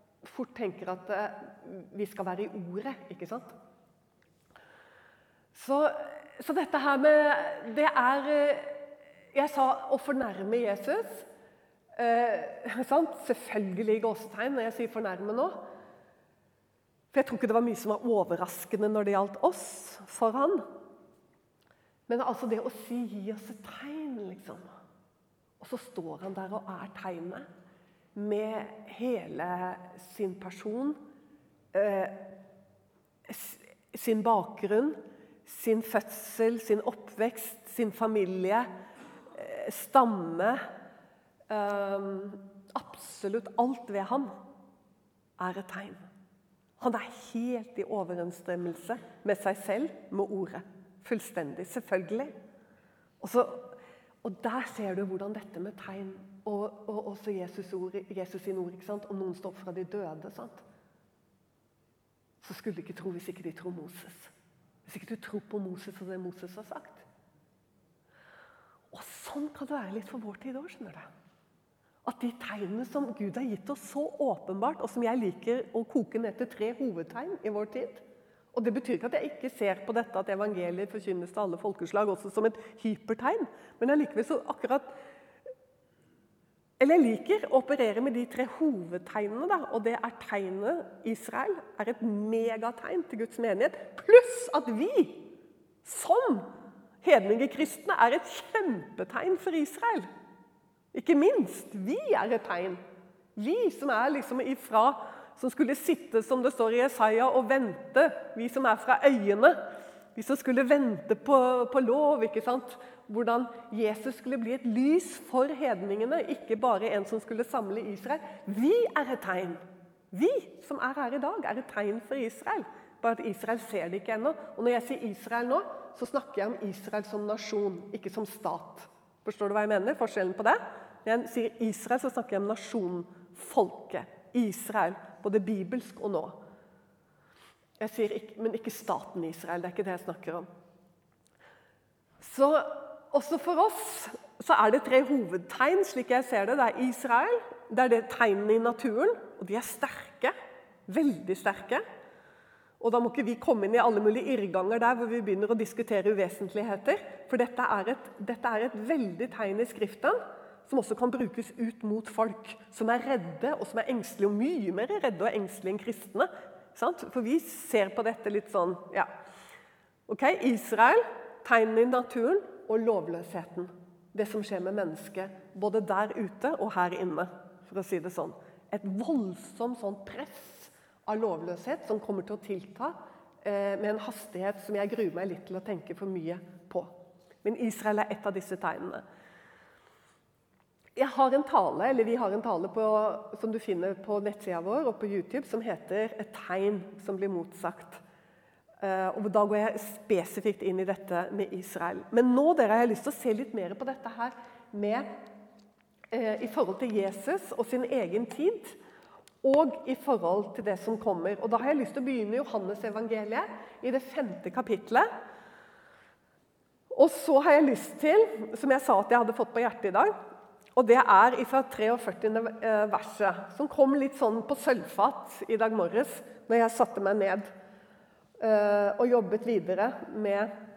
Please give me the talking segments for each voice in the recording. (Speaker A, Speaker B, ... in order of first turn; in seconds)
Speaker A: 0.2-3.5, 5.5-11.3, 12.0-15.6, 17.1-20.7, 22.1-24.7, 25.6-27.5, 28.1-31.0, 31.7-32.3, 33.3-38.7, 39.3-40.6, 41.5-44.4, 45.4-46.0, 46.8-52.4, 53.2-60.6, 62.4-64.3, 64.9-67.1, 68.9-71.1, 72.0-84.9, 86.8-95.3, 95.8-96.5, 97.0-100.1, 100.9-102.8, 103.4-109.6, 110.2-136.4, 137.8-140.5, 142.2-150.3, 150.9-151.8, 152.8-169.1, 170.1-186.9, 187.4-189.0, 191.0-198.0, 198.8-205.1, 206.1-208.8, 209.4-215.1, 216.9-220.1, 220.8-227.5, 228.4-230.5